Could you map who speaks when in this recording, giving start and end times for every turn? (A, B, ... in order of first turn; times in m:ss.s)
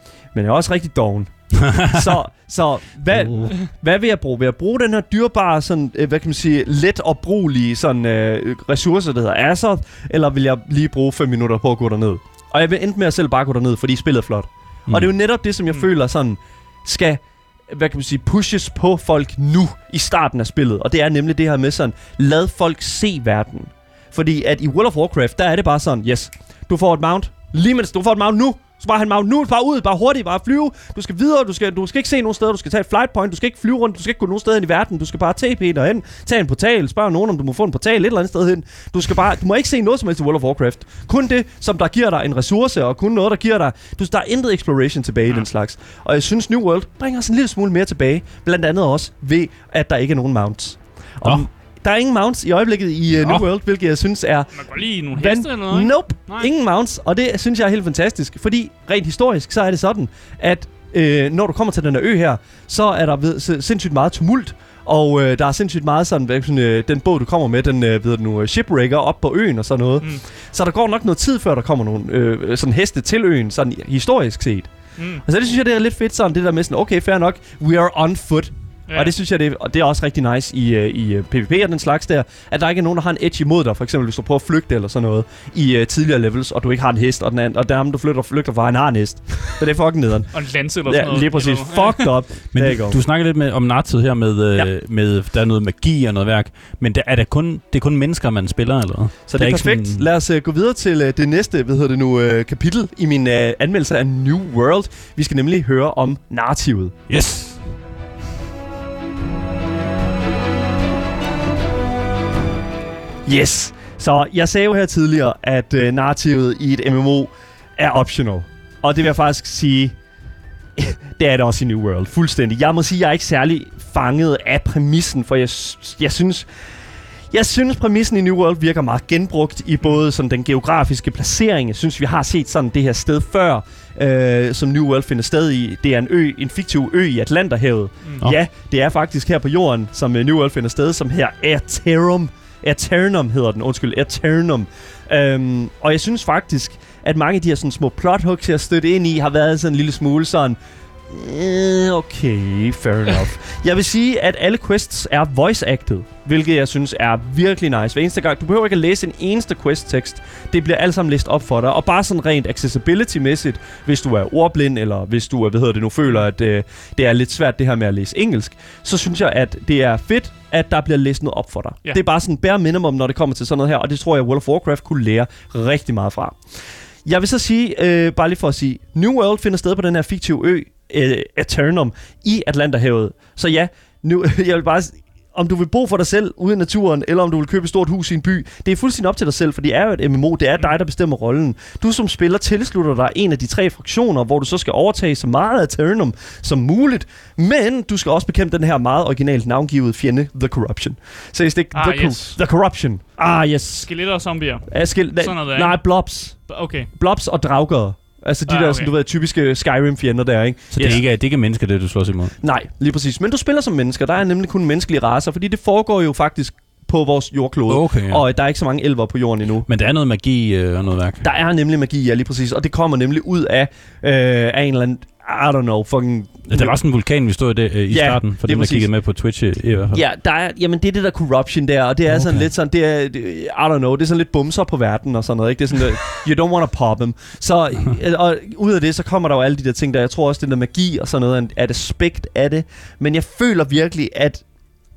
0:00.3-0:54.6 A
0:01.6-0:02.1 B
0:03.2-0:03.5 B
0:54.6-0:56.5 C
0:55.1-1:14.7 A
1:15.0-1:15.2 C
1:15.2-1:30.3 A
1:18.9-1:19.1 C
1:30.3-1:32.1 C
1:30.9-1:33.0 A
1:32.5-1:40.1 B
1:39.3-1:47.0 A
1:47.1-1:47.6 B
1:53.3-2:00.0 A
2:00.8-2:06.5 A
2:07.3-2:30.6 A
2:31.1-2:56.4 A
2:57.0-3:23.9 A
3:21.7-3:22.4 C
3:23.8-3:25.8 C
3:24.7-3:31.0 A
3:26.5-3:26.9 C
3:28.5-3:28.9 C
3:30.7-3:32.4 B
3:32.4-3:39.7 A
3:37.7-3:38.2 B
3:39.7-3:41.2 B
3:41.2-3:46.8 A
3:46.5-3:50.0 B
3:47.9-3:48.9 A
3:49.9-4:04.4 A
3:52.1-3:52.4 B